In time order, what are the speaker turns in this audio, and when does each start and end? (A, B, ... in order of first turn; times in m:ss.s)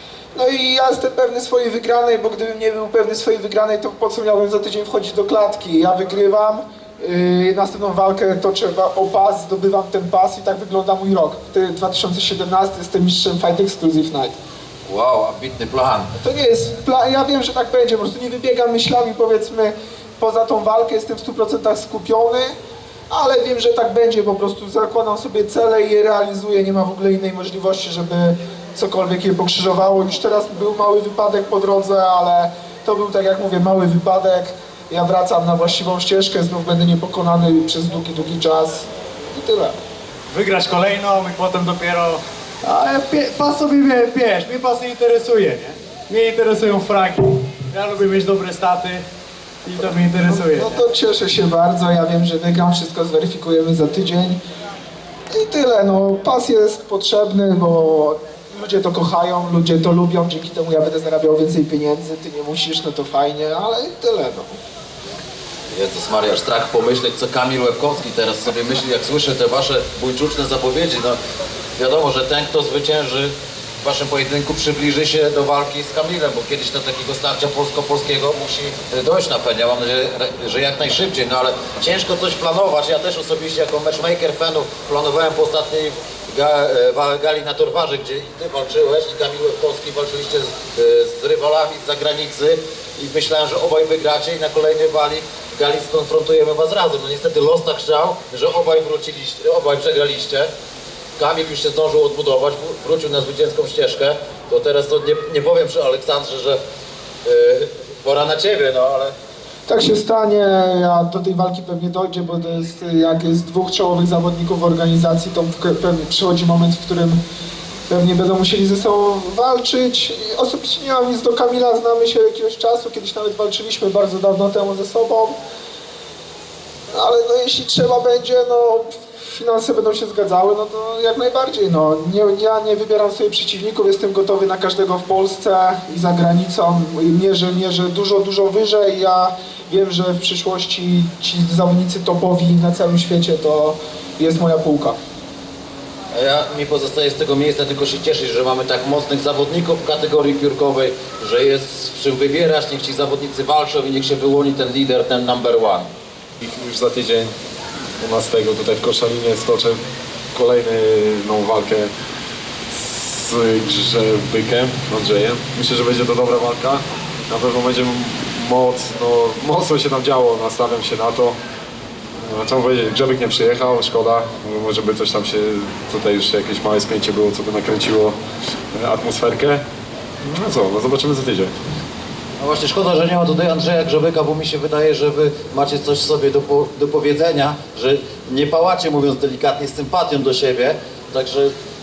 0:00.3-0:14.4 A
0:14.9-0:16.1 B
0:16.2-0:22.5 A
0:23.1-0:39.7 A
0:40.3-0:49.0 C
0:49.6-0:50.8 C
0:50.3-0:54.4 A
0:55.3-1:04.6 A
1:05.7-1:11.2 B
1:11.8-1:40.5 B
1:41.2-1:46.6 B
1:47.2-1:49.1 B
1:49.7-1:57.2 A
1:57.9-2:05.4 A
2:06.9-2:25.0 A
2:26.1-2:35.9 B
2:36.4-2:37.3 D
2:38.0-2:39.8 D
2:40.3-2:41.9 D
2:42.7-2:51.4 D
2:52.2-2:58.1 D
2:58.7-2:59.6 D
3:00.2-3:01.5 D
3:02.4-3:11.5 B